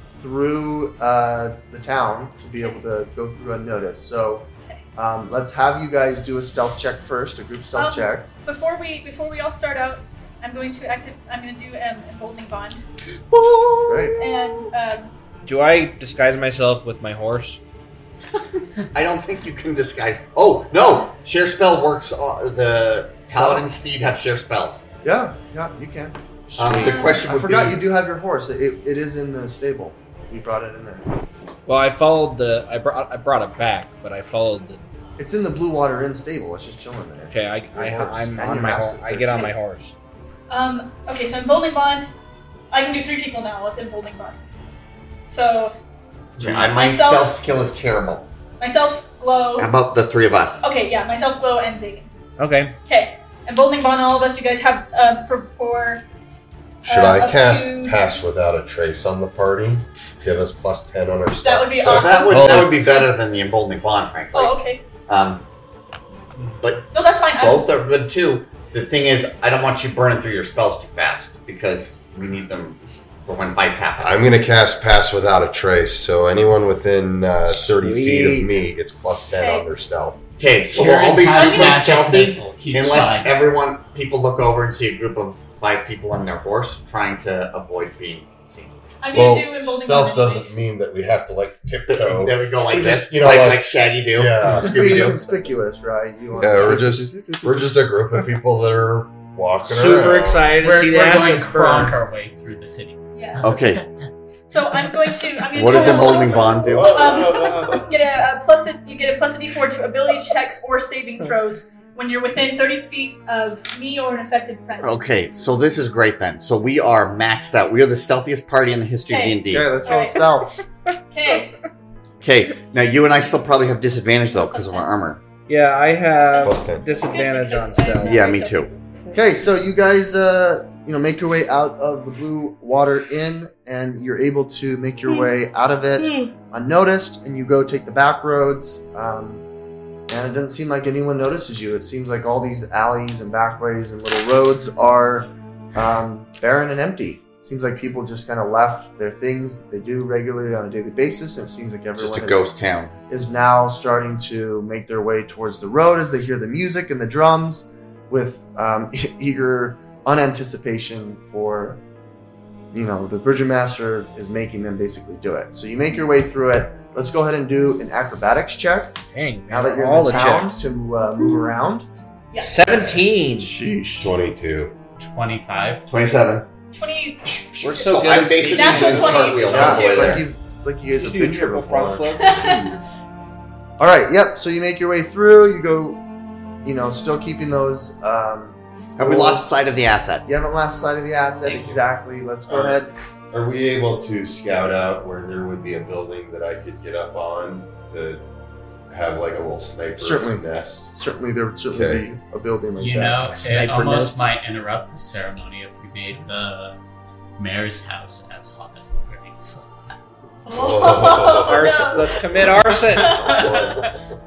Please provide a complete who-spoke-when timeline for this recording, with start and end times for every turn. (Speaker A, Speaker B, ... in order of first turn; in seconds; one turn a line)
Speaker A: 0.2-8.3
Speaker B: 7.8-12.9
Speaker C: 13.3-14.2
Speaker A: 13.9-14.2
Speaker B: 14.2-15.2
Speaker D: 15.4-17.6
Speaker C: 18.9-24.9
Speaker A: 23.3-23.7
Speaker A: 25.0-26.1
Speaker D: 26.5-27.0
Speaker C: 26.6-27.9
Speaker B: 26.8-27.2
Speaker A: 27.2-31.1
Speaker D: 31.7-34.8
Speaker A: 35.2-39.5
Speaker D: 37.3-39.9
Speaker E: 37.8-38.2
Speaker B: 40.5-42.1
Speaker B: 42.7-44.4
Speaker B: 45.2-45.8
Speaker C: 46.4-48.3
Speaker B: 46.8-47.4
Speaker B: 48.6-49.7
Speaker C: 49.6-50.7
Speaker B: 50.6-52.1
Speaker D: 52.4-52.8
Speaker B: 52.9-56.0
Speaker E: 56.9-62.3
Speaker B: 56.9-58.0
Speaker B: 61.4-62.9
Speaker C: 61.8-65.5
Speaker D: 62.3-62.8
Speaker B: 64.3-64.8
Speaker C: 66.6-74.2
Speaker B: 66.9-67.7
Speaker E: 74.0-80.2
Speaker D: 77.5-78.7
Speaker B: 79.4-79.7
Speaker C: 80.4-88.8
Speaker F: 80.7-83.3
Speaker B: 81.3-81.9
Speaker B: 89.0-90.5
Speaker E: 89.1-95.1
Speaker C: 91.9-95.2
Speaker A: 94.5-97.1
Speaker E: 96.4-100.5
Speaker D: 96.7-97.5
Speaker D: 99.6-102.0
Speaker F: 100.5-103.8
Speaker B: 103.1-103.4
Speaker C: 103.4-103.8
Speaker B: 104.5-115.0
Speaker C: 105.5-107.3
Speaker E: 106.1-107.9
Speaker C: 114.8-119.7
Speaker B: 119.1-120.2
Speaker A: 119.5-120.5
Speaker B: 121.1-121.6
Speaker C: 122.2-125.2
Speaker B: 124.3-124.9
Speaker D: 125.5-128.2
Speaker B: 126.2-128.7
Speaker E: 126.4-126.9
Speaker C: 128.0-128.7
Speaker A: 129.1-139.4
Speaker A: 140.1-152.5
Speaker C: 152.0-152.9
Speaker A: 153.1-161.8
Speaker A: 162.7-171.9
Speaker D: 169.1-170.6
Speaker B: 172.3-172.6
Speaker D: 172.4-173.6
Speaker F: 172.7-173.0
Speaker A: 173.4-174.1
Speaker E: 174.0-174.7
Speaker F: 175.0-175.9
Speaker C: 175.9-176.5
Speaker B: 176.7-180.2
Speaker D: 177.6-180.0
Speaker C: 177.7-180.3
Speaker A: 179.5-182.1
Speaker D: 180.9-182.8
Speaker B: 182.2-182.6
Speaker A: 183.8-186.0
Speaker A: 186.6-189.5
Speaker C: 189.0-190.3
Speaker A: 190.3-192.9
Speaker E: 192.5-192.8
Speaker E: 193.3-198.2
Speaker E: 198.9-200.9
Speaker A: 200.0-203.4
Speaker E: 201.7-202.1
Speaker F: 202.8-206.8
Speaker D: 203.3-204.3
Speaker F: 207.4-209.7
Speaker B: 210.5-213.8
Speaker E: 210.5-212.0
Speaker D: 211.4-213.7
Speaker E: 213.2-213.9